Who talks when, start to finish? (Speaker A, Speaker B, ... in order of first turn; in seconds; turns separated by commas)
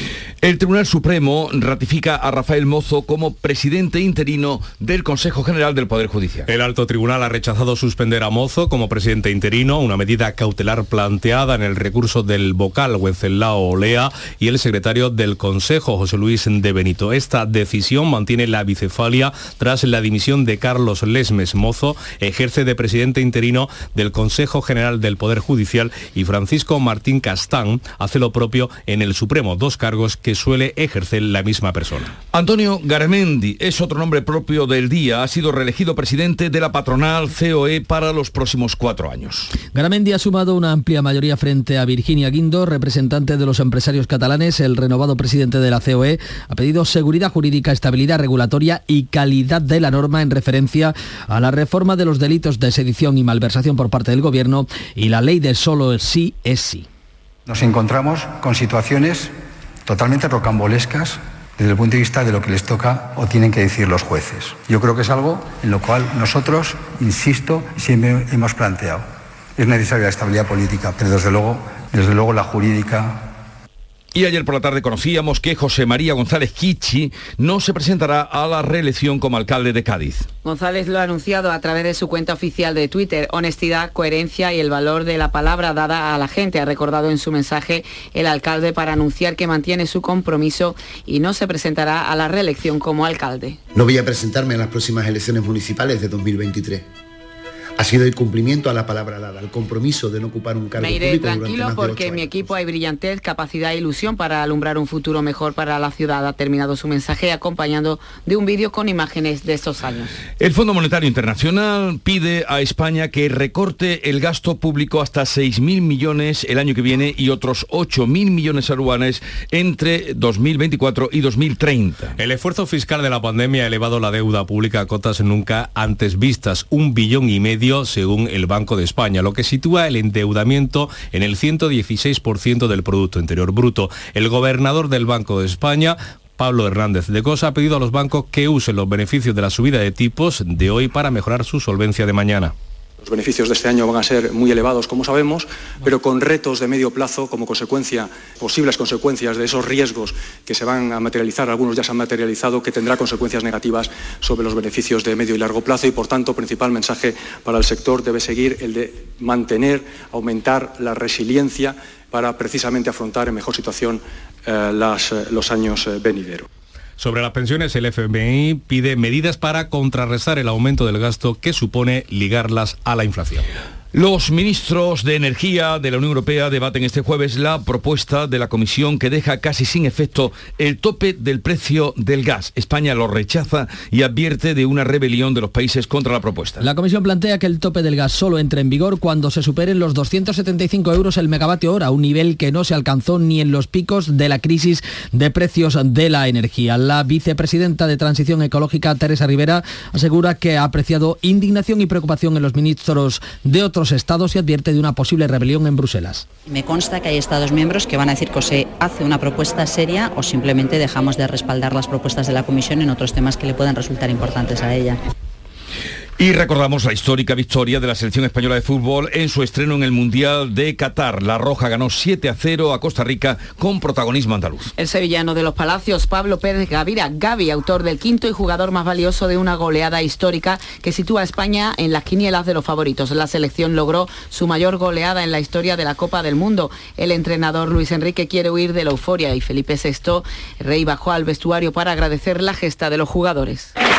Speaker A: 0.4-6.5, Speaker B: 6.5-32.1, Speaker A: 32.3-39.5, Speaker C: 39.7-56.9, Speaker D: 57.5-59.4, Speaker D: 59.9-73.4, Speaker A: 74.1-80.3, Speaker E: 80.5-93.6, Speaker F: 93.7-96.9, Speaker F: 97.8-102.5, Speaker E: 100.8-110.2, Speaker A: 110.4-122.2, Speaker B: 122.2-142.5, Speaker G: 143.0-166.5, Speaker B: 167.0-173.5, Speaker A: 173.9-186.7, Speaker C: 186.6-206.3, Speaker H: 206.6-214.9, Speaker A: 216.2-224.7, Speaker E: 224.8-243.7